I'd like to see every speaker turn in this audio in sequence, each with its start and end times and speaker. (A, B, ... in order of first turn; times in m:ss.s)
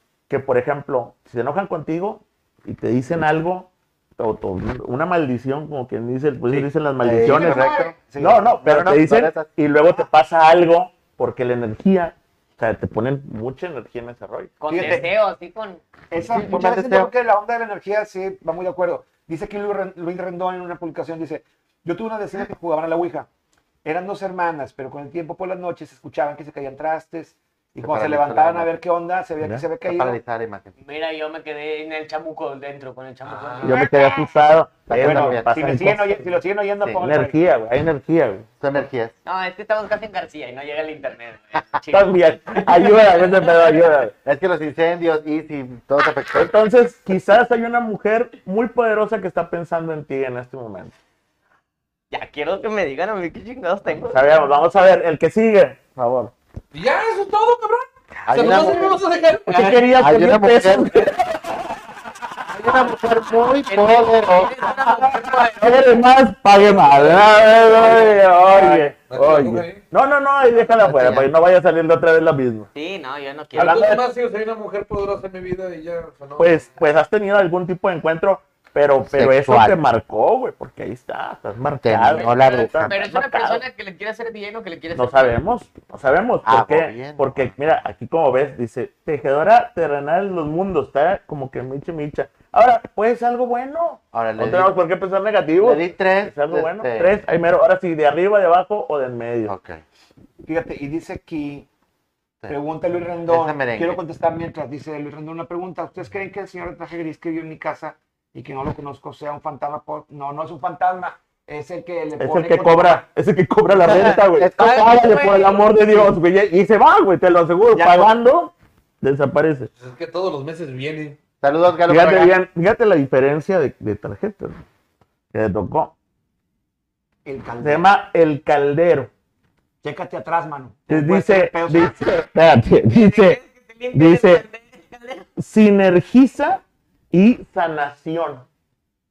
0:00.3-0:14.9 A
0:06.5-0:08.5 B
0:07.0-0:08.0 C
0:08.6-0:09.5 C
0:14.6-0:15.8 D
0:14.7-0:15.1 B
0:16.1-0:23.3 B
0:16.2-0:17.1 C
0:23.8-0:30.2 B
0:27.8-0:28.7 C
0:29.8-0:30.7 C
0:30.8-0:33.8 D
0:33.2-0:33.9 E
0:33.6-0:34.2 B
0:33.6-0:36.3 A
0:34.9-0:35.7 C
0:34.9-0:37.4 B
0:37.0-0:38.5 A
0:38.6-0:39.1 C
0:39.2-0:43.8 D
0:41.9-0:44.1 A
0:44.2-0:46.5 C
0:46.3-0:50.9 A
0:52.1-0:54.4 D
0:54.0-0:56.3 A
0:56.7-0:59.9 E
0:58.2-0:59.0 C
0:59.5-1:01.8 A
0:59.9-1:01.0 C
1:02.5-1:04.5 C
1:03.7-1:06.0 D
1:05.5-1:12.7 A
1:06.6-1:09.8 E
1:10.8-1:11.3 C
1:12.7-1:13.9 D
1:13.5-1:16.8 E
1:13.6-1:14.0 A
1:16.4-1:23.6 A
1:19.0-1:19.8 C
1:21.8-1:23.1 C
1:22.1-1:25.4 D
1:25.0-1:39.5 A
1:26.4-1:27.5 C
1:34.1-1:34.8 C
1:35.6-1:37.2 C
1:39.4-1:39.8 C
1:40.4-1:41.7 B
1:42.5-1:53.0 B
1:43.3-1:44.0 C
1:52.2-1:59.7 A
1:53.8-1:55.7 D
1:53.9-1:54.9 C
1:57.7-1:58.1 B
1:59.8-2:01.2 E
2:01.4-2:02.4 C
2:01.9-2:04.6 A
2:05.3-2:05.9 A
2:07.2-2:07.8 B
2:07.6-2:09.1 A
2:09.8-2:12.0 B
2:10.9-2:13.4 A
2:12.8-2:15.3 D
2:13.9-2:14.4 A
2:15.4-2:18.4 A